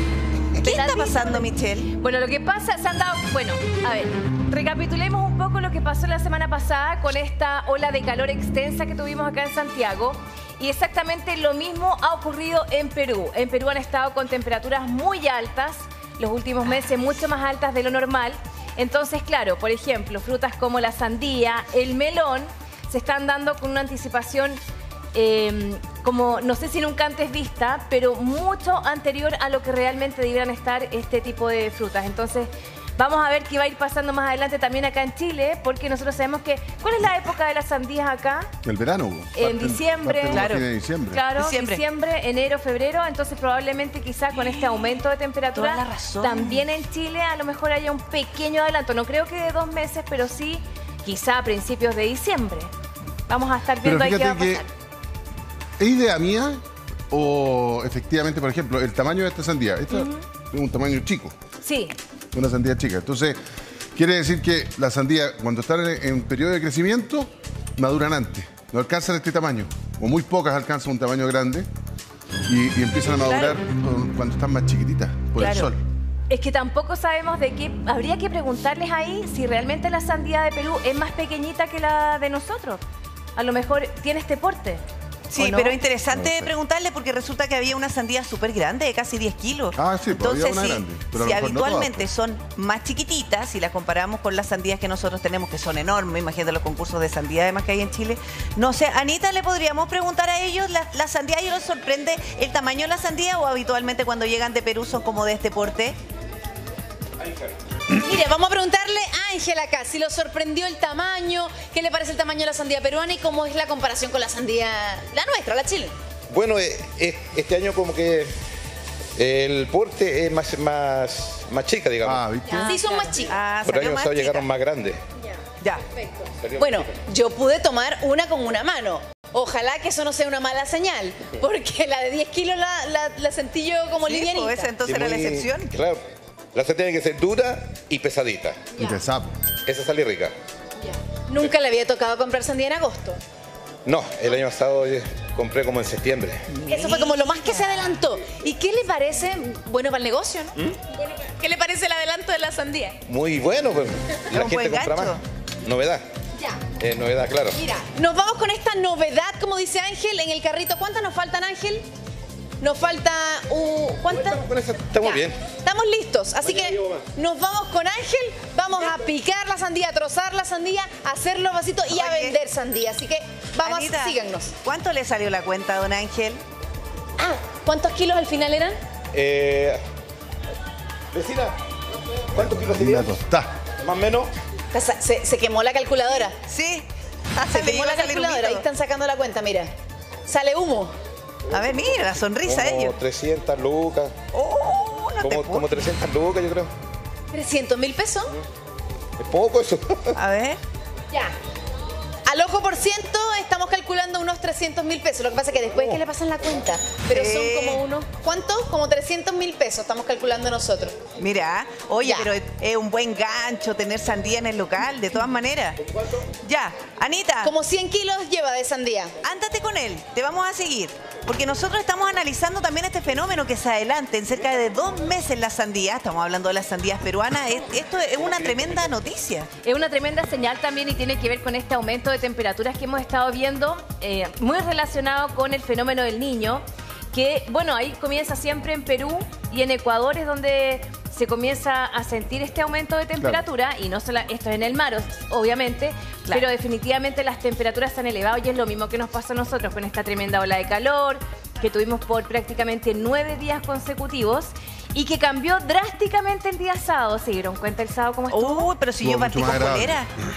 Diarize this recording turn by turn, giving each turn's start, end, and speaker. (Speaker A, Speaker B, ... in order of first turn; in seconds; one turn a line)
Speaker A: 0.5-1.9
Speaker B: 0.6-24.6
Speaker B: 25.1-38.5
Speaker C: 38.6-41.2
Speaker B: 39.4-40.5
Speaker A: 40.3-40.6
Speaker B: 41.1-52.7
Speaker A: 41.4-41.8
Speaker A: 45.5-46.6
Speaker B: 53.3-54.7
Speaker C: 53.8-54.6
Speaker C: 55.8-61.3
Speaker B: 59.9-60.2
Speaker B: 61.6-61.9
Speaker C: 62.3-63.4
Speaker C: 63.9-71.7
Speaker C: 72.5-75.8
Speaker A: 73.2-73.6
Speaker A: 75.4-75.7
Speaker B: 76.3-82.8
Speaker B: 83.4-84.8
Speaker A: 85.3-106.0
Speaker B: 85.4-85.8
Speaker C: 86.1-86.5
Speaker C: 89.8-92.1
Speaker D: 107.9-115.9
Speaker E: 116.3-118.3
Speaker E: 119.2-122.2
Speaker C: 122.0-122.7
Speaker D: 122.5-123.3
Speaker B: 122.6-123.1
Speaker A: 123.2-124.5
Speaker E: 123.6-125.0
Speaker D: 126.0-134.7
Speaker E: 126.4-126.9
Speaker A: 134.0-135.7
Speaker E: 134.8-136.0
Speaker E: 136.5-138.6
Speaker C: 138.8-139.3
Speaker E: 139.7-140.3
Speaker D: 140.8-143.2
Speaker E: 143.8-146.4
Speaker A: 146.6-147.5
Speaker D: 146.7-153.0
Speaker E: 153.1-156.1
Speaker A: 154.3-155.2
Speaker D: 156.4-156.7
Speaker E: 156.8-157.6
Speaker D: 157.5-161.9
Speaker D: 162.6-164.4
Speaker E: 164.3-165.4
Speaker D: 165.0-174.5
Speaker A: 171.9-172.4
Speaker A: 173.6-176.4
Speaker D: 177.2-178.8
Speaker E: 179.1-179.8
Speaker E: 181.1-181.6
Speaker E: 182.3-183.2
Speaker C: 182.4-183.5
Speaker E: 183.8-184.3
Speaker D: 184.7-186.3
Speaker A: 186.2-188.6
Speaker D: 187.5-189.7
Speaker D: 190.2-190.9
Speaker A: 191.5-192.9
Speaker E: 192.4-194.1
Speaker A: 194.3-195.7
Speaker E: 195.2-196.7
Speaker D: 197.3-198.3
Speaker E: 199.2-200.2
Speaker A: 200.1-200.6
Speaker D: 202.2-211.0
Speaker A: 207.1-207.8
Speaker A: 211.2-215.8
Speaker D: 212.0-212.3
Speaker A: 216.4-217.5
Speaker D: 217.4-219.1
Speaker A: 219.2-229.5
Speaker B: 229.6-258.7
Speaker A: 258.3-260.1
Speaker C: 259.0-260.0